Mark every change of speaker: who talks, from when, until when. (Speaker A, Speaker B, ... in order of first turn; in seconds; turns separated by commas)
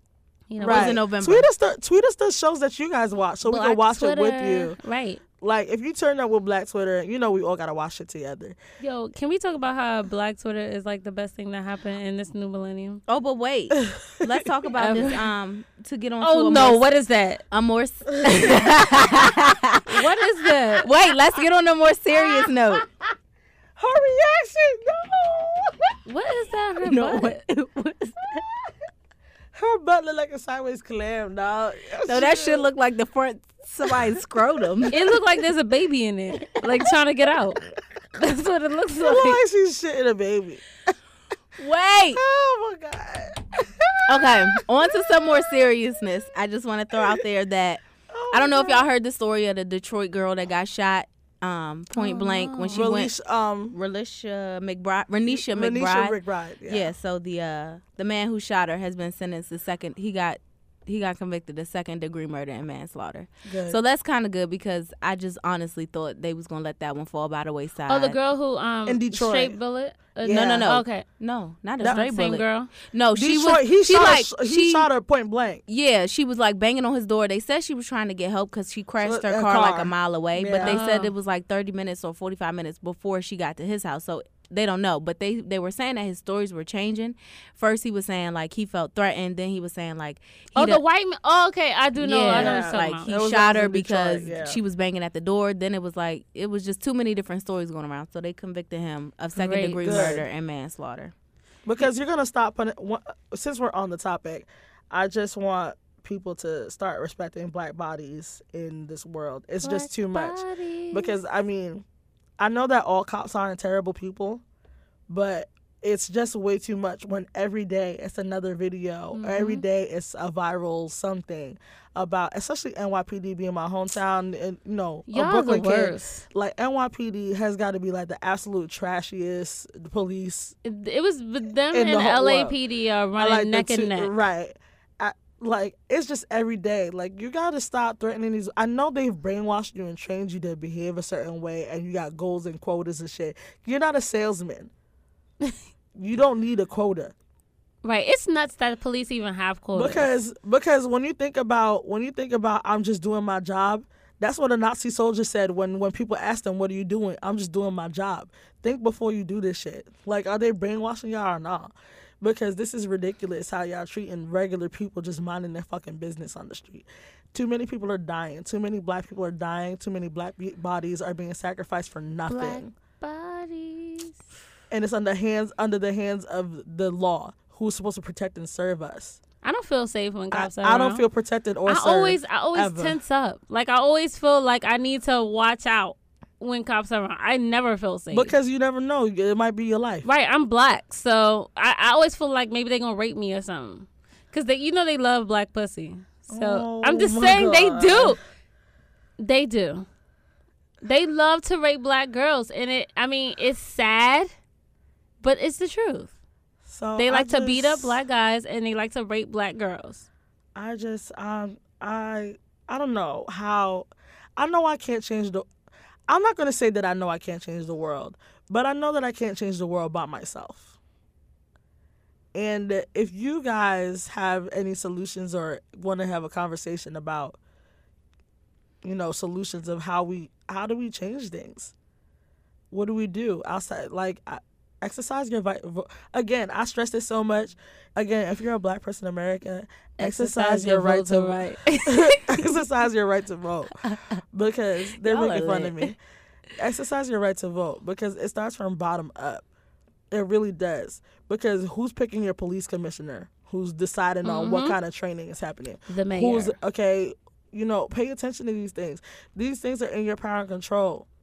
Speaker A: 0.5-1.0, Speaker B: 0.6-1.5, Speaker C: 0.6-4.8, Speaker A: 3.5-5.2, Speaker C: 5.4-8.6, Speaker A: 8.8-13.0, Speaker B: 13.1-16.9, Speaker A: 14.8-15.3, Speaker A: 16.2-17.4, Speaker B: 17.5-20.2, Speaker A: 19.9-20.9, Speaker B: 20.8-22.9, Speaker C: 23.8-25.9, Speaker A: 26.1-27.5, Speaker B: 26.8-28.1, Speaker C: 29.5-32.6, Speaker B: 32.1-35.0, Speaker A: 34.9-37.6, Speaker A: 38.2-39.4, Speaker C: 39.0-40.6, Speaker B: 41.6-42.2, Speaker C: 42.1-44.6, Speaker B: 44.1-53.1, Speaker C: 48.1-48.9, Speaker A: 51.9-52.8, Speaker C: 52.7-53.7, Speaker B: 53.7-68.2, Speaker C: 55.3-56.9, Speaker C: 63.5-63.8, Speaker A: 67.9-71.0, Speaker C: 68.8-69.5, Speaker C: 70.2-70.7, Speaker B: 70.3-74.9, Speaker A: 71.9-72.7, Speaker C: 73.2-75.6, Speaker B: 75.7-90.8, Speaker C: 79.0-80.8, Speaker A: 80.6-81.1, Speaker A: 90.5-93.1, Speaker B: 92.0-101.1, Speaker C: 92.3-94.6, Speaker A: 99.4-100.2, Speaker C: 99.8-100.2, Speaker C: 101.7-111.8, Speaker A: 109.6-111.1, Speaker C: 112.4-114.4, Speaker C: 115.1-130.5, Speaker A: 119.1-119.6, Speaker A: 125.1-126.2, Speaker A: 130.6-134.1, Speaker C: 131.7-132.5, Speaker C: 133.2-144.7, Speaker C: 145.9-147.1, Speaker A: 147.8-150.1, Speaker C: 149.7-172.7, Speaker A: 172.3-174.2, Speaker C: 174.7-179.2, Speaker A: 179.4-181.0, Speaker C: 180.3-182.9, Speaker A: 181.7-188.3, Speaker C: 188.1-190.1, Speaker A: 190.0-198.2, Speaker C: 196.3-198.2, Speaker A: 199.2-199.9, Speaker A: 200.8-204.3, Speaker A: 205.2-206.1, Speaker C: 206.7-207.9, Speaker A: 207.0-210.0, Speaker C: 210.5-215.4, Speaker C: 216.1-220.7, Speaker C: 222.3-227.4, Speaker C: 228.8-231.7, Speaker C: 232.7-243.8, Speaker A: 240.0-242.5, Speaker C: 244.3-246.0, Speaker B: 245.0-245.9, Speaker C: 246.6-249.4, Speaker C: 250.1-261.1, Speaker A: 254.2-254.8, Speaker A: 255.9-256.5